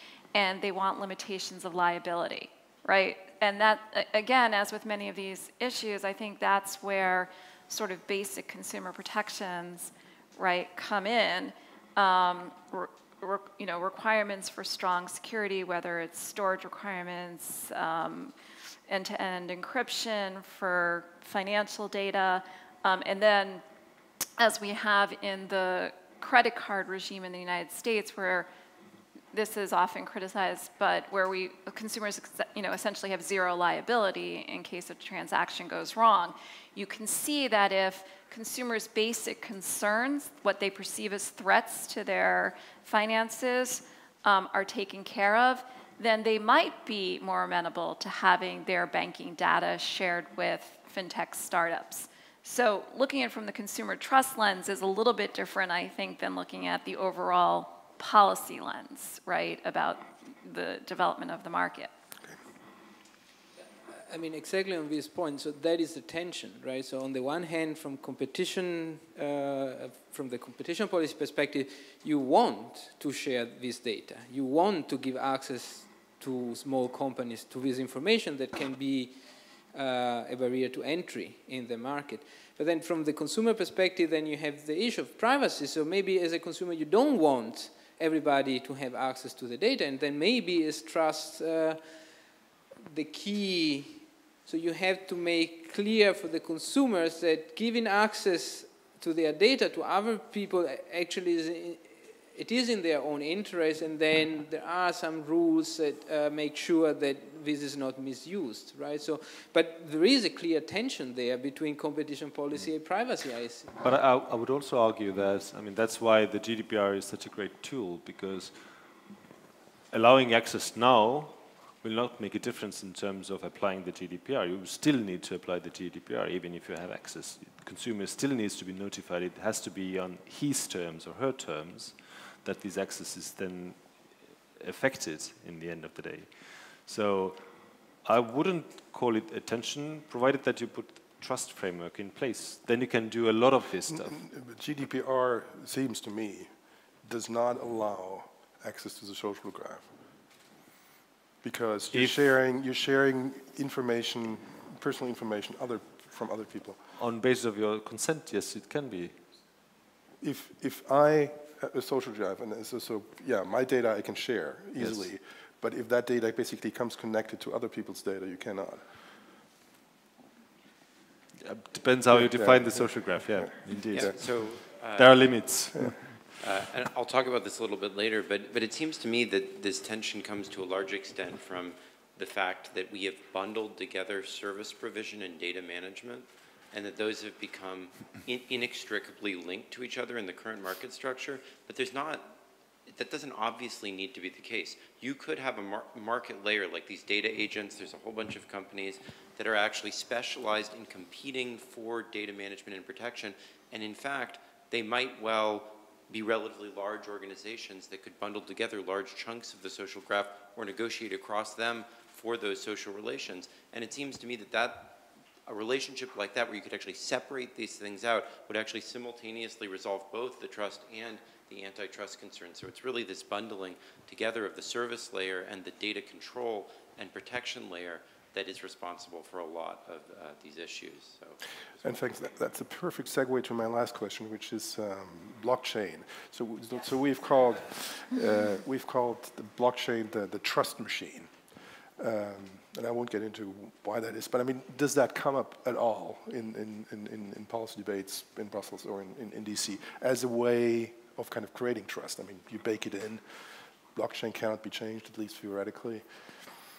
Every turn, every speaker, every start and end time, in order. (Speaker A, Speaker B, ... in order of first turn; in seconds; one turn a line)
Speaker A: 0.3-18.3
Speaker A: 18.9-23.6
Speaker A: 24.4-28.5
Speaker A: 29.3-61.9
Speaker B: 63.9-79.2
Speaker B: 79.7-91.8
Speaker B: 92.8-113.7
Speaker C: 113.8-118.6
Speaker C: 119.9-137.5
Speaker C: 138.0-144.2
Speaker D: 143.9-149.9
Speaker D: 151.4-156.8
Speaker C: 157.0-159.2
Speaker D: 160.2-168.9
Speaker C: 164.8-165.1
Speaker C: 171.4-176.3
Speaker D: 172.1-174.2
Speaker E: 173.7-175.4
Speaker E: 176.4-192.4
Speaker E: 192.9-231.4
Speaker D: 231.8-241.3
Speaker D: 242.0-256.1